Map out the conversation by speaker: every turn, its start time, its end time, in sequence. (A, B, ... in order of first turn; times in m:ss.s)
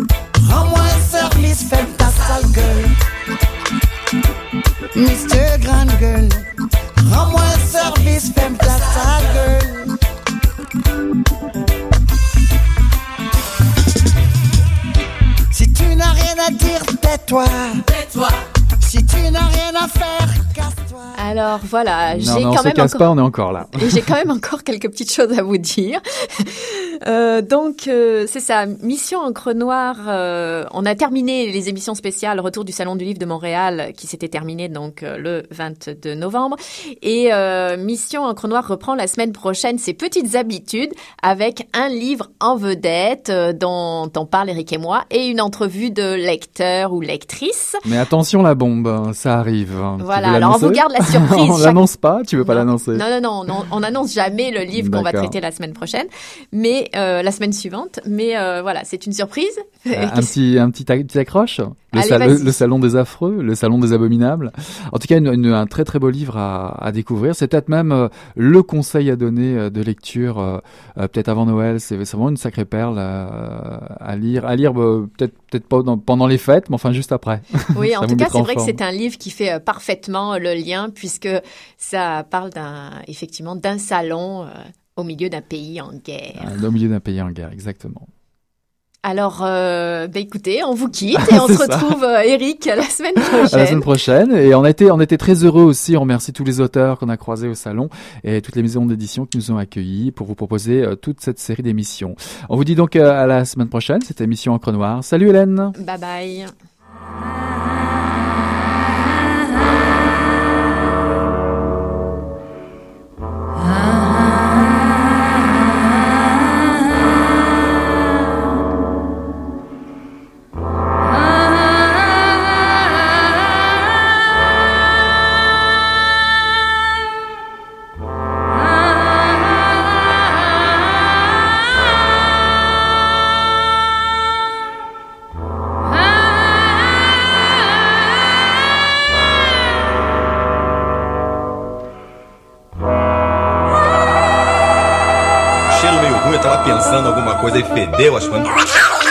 0:00.4-0:02.9 A
0:04.9-0:06.4 A
0:07.0-0:09.9 A
0:15.5-0:17.8 A
0:18.8-0:21.1 A
0:21.1-0:23.1 B
0:22.1-0:24.0 C
0:23.7-0:47.8 B
0:47.8-0:53.0 C
0:50.0-0:51.8 B
0:52.4-1:00.3 B
0:54.7-0:55.4 C
0:59.9-1:18.8 C
1:01.9-1:02.6 B
1:17.7-1:26.4 B
1:26.4-1:28.1 C
1:29.0-1:33.9 B
1:31.1-1:31.9 C
1:33.4-1:45.7 C
1:45.8-1:46.5 B
2:25.7-2:28.6 D